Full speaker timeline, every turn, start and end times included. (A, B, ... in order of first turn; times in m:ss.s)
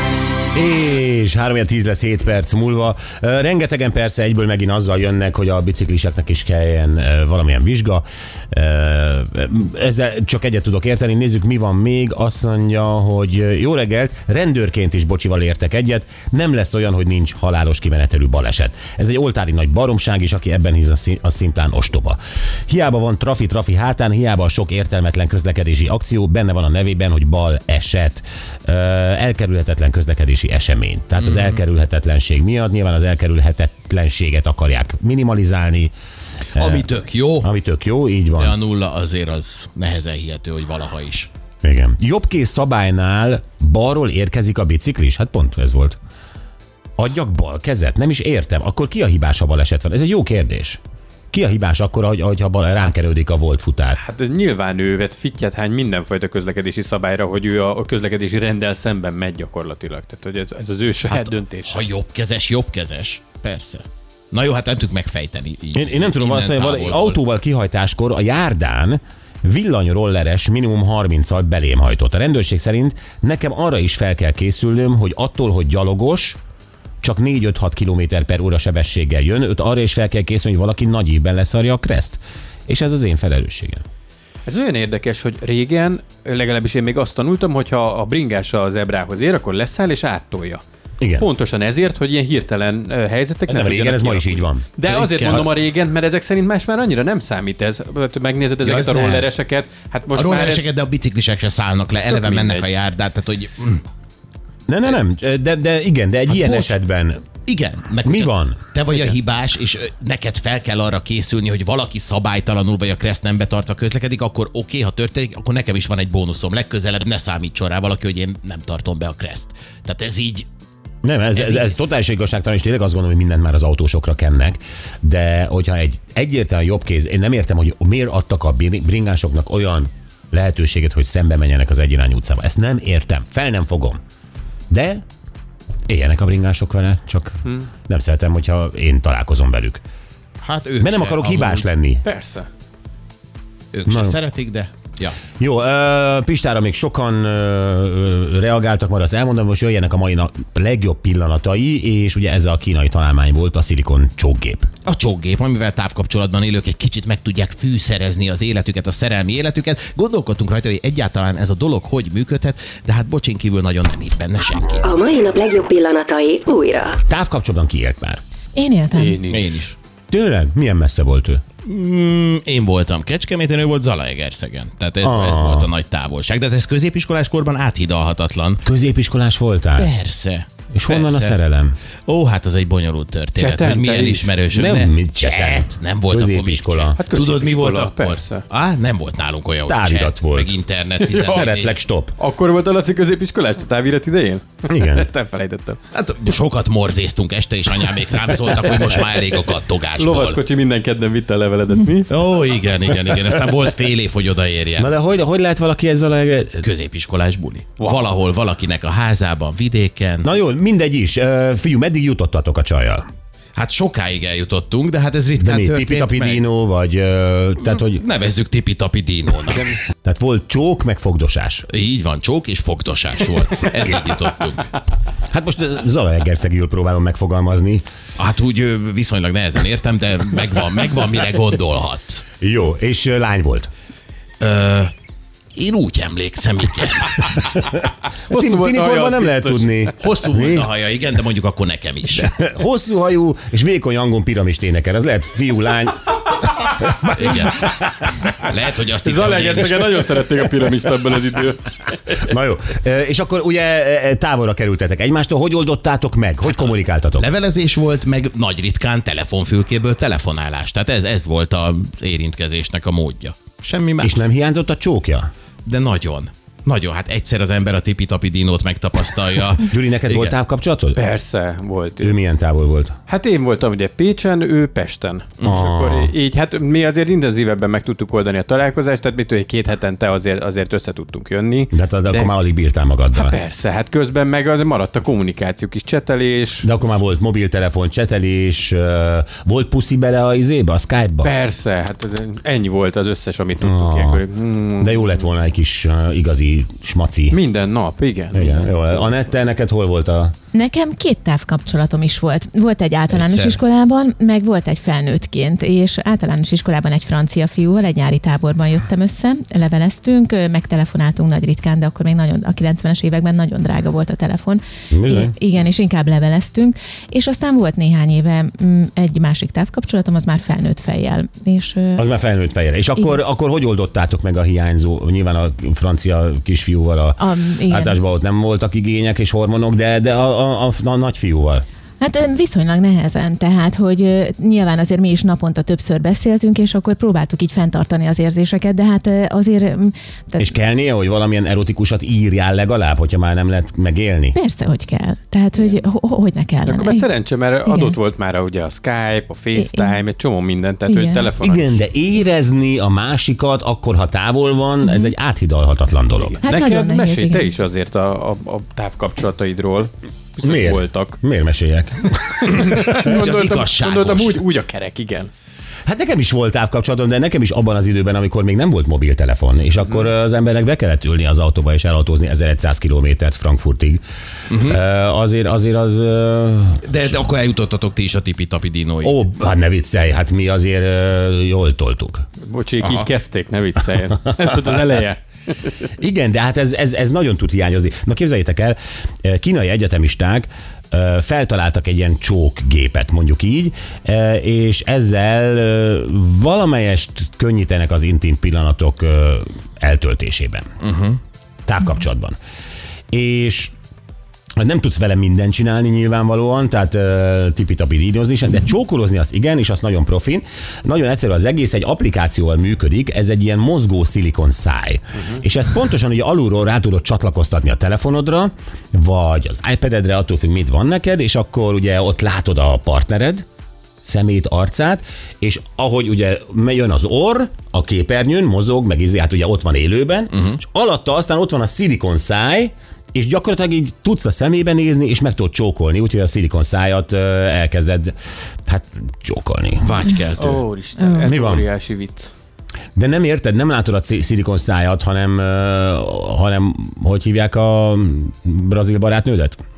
0:00.5-0:22.2 A
0:22.7-0:35.9 A
0:31.2-0:31.6 B
0:36.6-0:37.5 B
0:36.6-0:36.9 A
0:37.4-0:38.6 A
0:38.4-0:41.3 B
0:41.6-0:46.0 A
0:47.0-0:50.8 A
0:51.3-0:54.0 A
0:54.0-1:01.9 C
1:01.1-1:07.2 B
1:05.7-1:16.4 A
1:17.0-1:23.8 A
1:24.5-1:30.6 C
1:31.0-1:31.3 A
1:31.2-1:40.7 C
1:33.5-1:35.3 A
1:34.9-1:35.5 B
1:38.6-1:39.3 B
1:40.1-1:43.8 B
1:42.1-1:42.7 C
1:44.7-1:47.3 A
1:46.3-1:46.7 B
1:47.5-2:00.5 B
1:48.0-1:48.6 A
2:01.0-2:14.0 A
2:01.4-2:01.8 B
2:14.7-2:15.0 A
2:15.9-2:19.8 A
2:20.4-2:21.6 B
2:20.8-2:22.0 A
2:22.0-2:22.5 C
2:23.7-2:25.2 B
2:23.9-2:24.2 A
2:25.4-2:34.7 A
2:34.9-2:44.9 B
2:44.8-2:47.0 D
2:47.1-2:48.2 A
2:48.6-2:49.2 E
2:48.9-2:49.6 C
2:49.3-2:49.8 B
2:50.1-2:51.4 A
2:51.6-2:58.6 B
2:55.0-2:55.7 A
2:58.6-2:59.9 A
2:59.8-3:01.4 B
3:00.7-3:01.8 A
3:02.1-3:11.8 B
3:03.4-3:04.4 C
3:04.5-3:07.0 A
3:07.0-3:08.4 C
3:09.6-3:10.6 A
3:11.0-3:11.5 C
3:11.1-3:12.2 A
3:12.2-3:15.8 C
3:14.7-3:15.1 A
3:15.9-3:20.4 B
3:18.4-3:19.3 C
3:20.0-3:22.1 C
3:22.1-3:24.9 B
3:24.8-3:26.6 A
3:26.6-3:30.3 B
3:27.8-3:28.1 C
3:30.2-3:33.0 A
3:33.6-3:36.4 B
3:35.4-3:38.1 A
3:37.7-3:39.8 B
3:40.0-3:41.7 A
3:41.7-3:44.7 B
3:45.3-3:47.8 A
3:48.2-3:52.2 B
3:52.4-3:53.7 A
3:54.4-3:54.9 B
3:55.6-3:57.3 B
3:57.3-4:00.7 A
3:58.3-3:59.9 C
4:00.0-4:02.3 B
4:02.1-4:08.2 A
4:07.1-4:10.1 B
4:09.0-4:12.3 C
4:12.2-4:17.3 A
4:17.2-4:24.2 B
4:24.0-4:25.3 A
4:25.6-4:30.3 B
4:29.6-4:31.0 A
4:31.0-4:32.2 C
4:32.0-4:33.0 A
4:33.1-4:42.4 C
4:35.4-4:36.1 A
4:41.7-4:43.4 A
4:43.1-4:46.7 C
4:46.6-4:51.4 A
4:51.2-4:55.2 C
4:53.6-4:54.2 A
4:54.8-4:57.4 A
4:57.3-4:59.1 C
4:58.3-5:00.3 A
5:00.5-5:22.0 E
5:03.1-5:03.6 B
5:14.9-5:15.4 A
5:22.0-5:31.6 A
5:27.2-5:28.0 E
5:32.0-5:40.5 E
5:40.4-5:44.4 A
5:44.3-5:47.1 E
5:46.6-5:51.8 C
5:47.7-5:48.0 E
5:49.6-5:50.0 E
5:50.9-5:51.3 E
5:51.4-5:56.4 A
5:54.8-5:55.1 E
5:56.2-6:01.2 C
5:56.4-5:57.5 E
6:00.4-6:02.9 A
6:02.4-6:05.3 C
6:02.5-6:04.4 B
6:05.9-6:14.0 A
6:09.8-6:10.1 C
6:14.5-6:14.8 B
6:14.6-6:17.3 A
6:16.9-6:19.2 B
6:19.0-6:22.3 A
6:22.4-6:25.7 C
6:22.8-6:23.1 B
6:26.0-6:40.7 A
6:40.8-6:41.2 B
6:41.7-6:42.4 A
6:43.1-6:43.7 A
6:44.6-7:03.4 A
7:04.0-7:18.2 A
7:10.3-7:10.6 B
7:18.7-7:20.0 A
7:19.8-7:20.6 B
7:20.4-7:22.3 C
7:21.0-7:21.3 E
7:21.2-7:21.7 A
7:23.0-7:29.6 A